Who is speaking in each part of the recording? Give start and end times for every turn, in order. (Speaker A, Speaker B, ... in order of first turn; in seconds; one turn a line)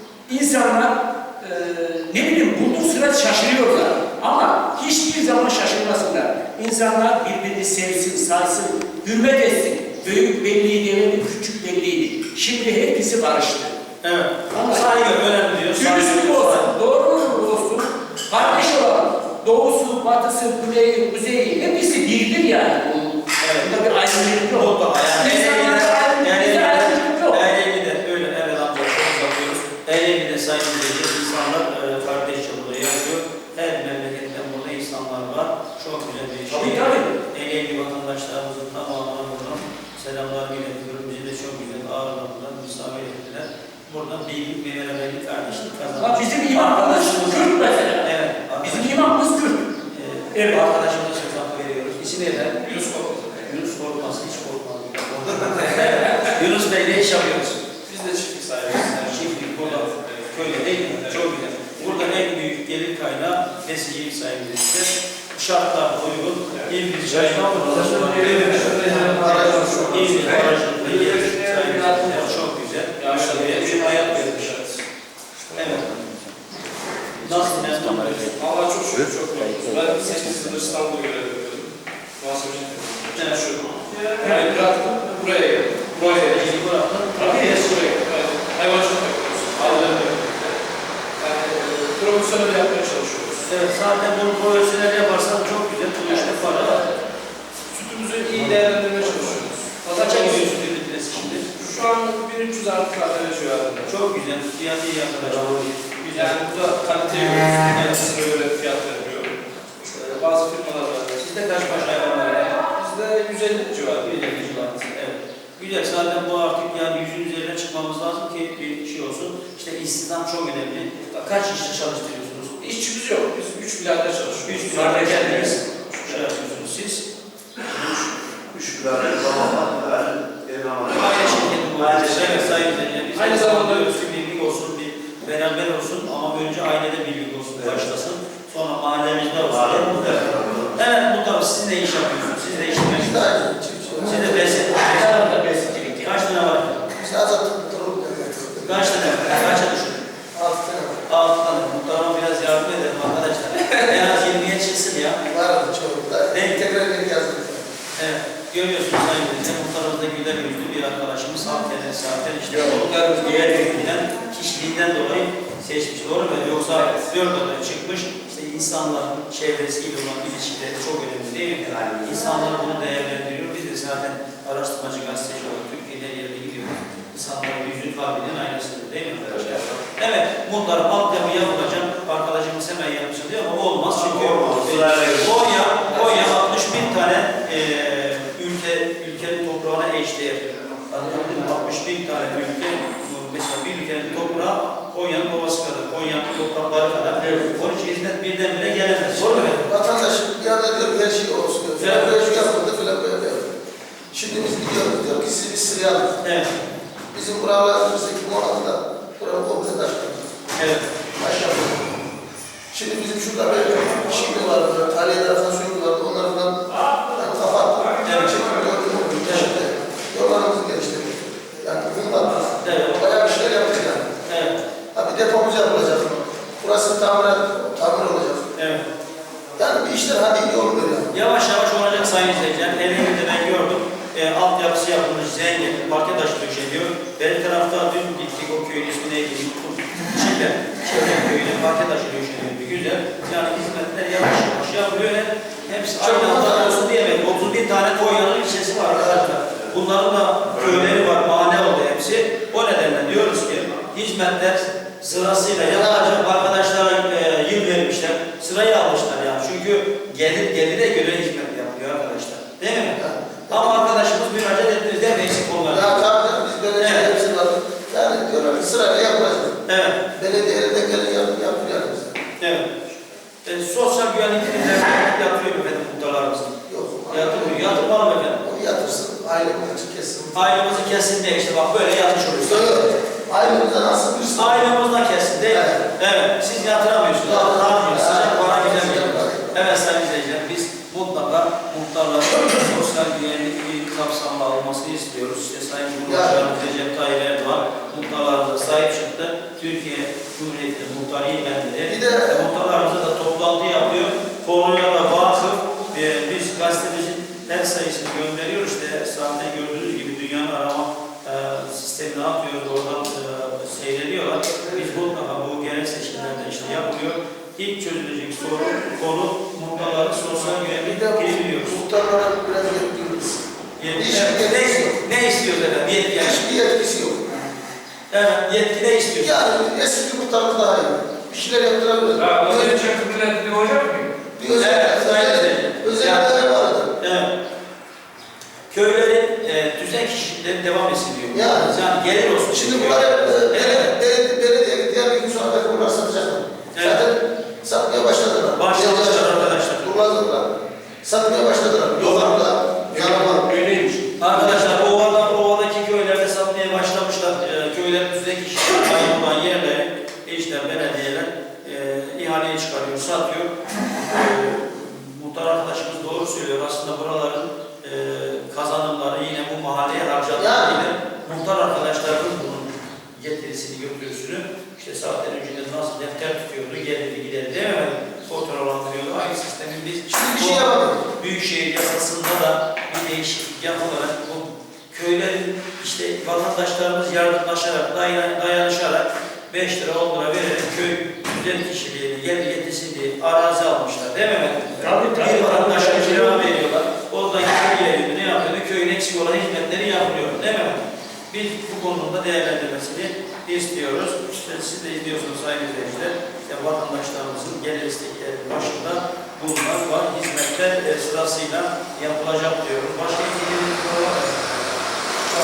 Speaker A: 0.3-13.8
Speaker B: 14.0-16.7
Speaker A: 14.5-15.2
Speaker A: 15.7-27.4
Speaker B: 18.4-18.7
Speaker B: 23.4-23.9
Speaker B: 24.4-49.2
Speaker A: 36.5-37.1
Speaker A: 45.9-49.7
Speaker B: 49.9-52.6
Speaker A: 50.3-50.7
Speaker C: 52.6-53.5
Speaker B: 53.4-57.6
Speaker C: 55.5-56.3
Speaker C: 57.7-62.2
Speaker B: 58.9-74.6
Speaker C: 66.5-72.4
Speaker D: 67.6-68.6
Speaker E: 68.7-70.3
Speaker D: 70.2-70.5
Speaker C: 73.0-74.8
Speaker B: 75.5-76.0
Speaker B: 77.2-78.3
Speaker C: 77.9-86.6
Speaker B: 83.2-83.4
Speaker A: 84.2-84.5
Speaker B: 86.0-87.9
Speaker C: 87.1-90.6
Speaker A: 87.3-87.6
Speaker C: 91.2-93.5
Speaker B: 93.4-96.8
Speaker A: 96.3-96.8
Speaker C: 96.3-96.7
Speaker C: 97.7-100.7
Speaker B: 99.8-101.5
Speaker C: 101.6-103.9
Speaker B: 103.9-106.4
Speaker C: 106.0-111.3
Speaker B: 107.7-108.0
Speaker B: 111.2-112.5
Speaker C: 111.8-114.3
Speaker B: 113.9-122.6
Speaker C: 122.6-124.8
Speaker B: 124.3-127.0
Speaker A: 124.7-125.6
Speaker B: 127.6-128.1
Speaker D: 128.5-132.8
Speaker B: 130.9-143.4
Speaker C: 133.1-133.9
Speaker D: 137.6-137.9
Speaker D: 139.4-140.8
Speaker E: 142.8-144.7
Speaker B: 144.0-145.4
Speaker A: 144.3-146.2
Speaker B: 145.9-146.9
Speaker E: 147.0-149.2
Speaker B: 148.6-150.1
Speaker E: 150.3-151.1
Speaker B: 151.1-155.2
Speaker E: 155.3-157.7
Speaker B: 156.3-156.6
Speaker B: 158.0-199.7
Speaker C: 162.5-163.9
Speaker C: 166.8-167.1
Speaker D: 179.3-179.8
Speaker D: 183.9-185.4
Speaker E: 199.6-203.5
Speaker B: 201.8-202.1
Speaker E: 204.1-206.2
Speaker B: 206.2-206.5
Speaker E: 207.1-210.4
Speaker B: 210.6-210.9
Speaker E: 211.2-212.0
Speaker E: 212.7-224.2
Speaker B: 218.0-218.4
Speaker B: 219.2-219.5
Speaker B: 222.6-223.1
Speaker B: 224.2-224.6
Speaker E: 224.9-228.6
Speaker B: 228.6-228.8
Speaker E: 229.6-231.1
Speaker B: 231.1-263.0
Speaker E: 246.0-246.8
Speaker E: 248.9-249.3
Speaker E: 255.5-256.2
Speaker E: 262.9-264.0
Speaker B: 263.5-266.0
Speaker E: 265.7-269.6
Speaker B: 266.8-267.1
Speaker B: 269.7-270.0
Speaker E: 270.1-272.1
Speaker B: 272.4-272.8
Speaker B: 273.4-276.6
Speaker E: 276.7-280.6
Speaker B: 277.1-278.4
Speaker B: 280.3-282.9
Speaker E: 282.4-284.8
Speaker B: 284.4-321.8
Speaker E: 285.5-285.9
Speaker E: 287.2-289.6
Speaker E: 296.1-296.5
Speaker E: 301.9-302.4
Speaker E: 320.7-323.4
Speaker B: 323.8-326.4
Speaker E: 323.9-325.0
Speaker E: 326.2-327.3
Speaker B: 328.1-329.4
Speaker E: 329.2-333.0
Speaker C: 332.2-334.1
Speaker E: 334.4-336.9
Speaker B: 334.6-336.3
Speaker B: 337.0-337.3
Speaker B: 338.7-343.9
Speaker E: 341.3-341.8
Speaker E: 342.5-350.5
Speaker B: 346.7-347.0
Speaker B: 348.6-349.9
Speaker E: 351.0-353.5
Speaker A: 352.0-354.8
Speaker B: 354.2-414.4
Speaker E: 370.4-370.8
Speaker E: 380.1-381.0
Speaker A: 394.8-396.5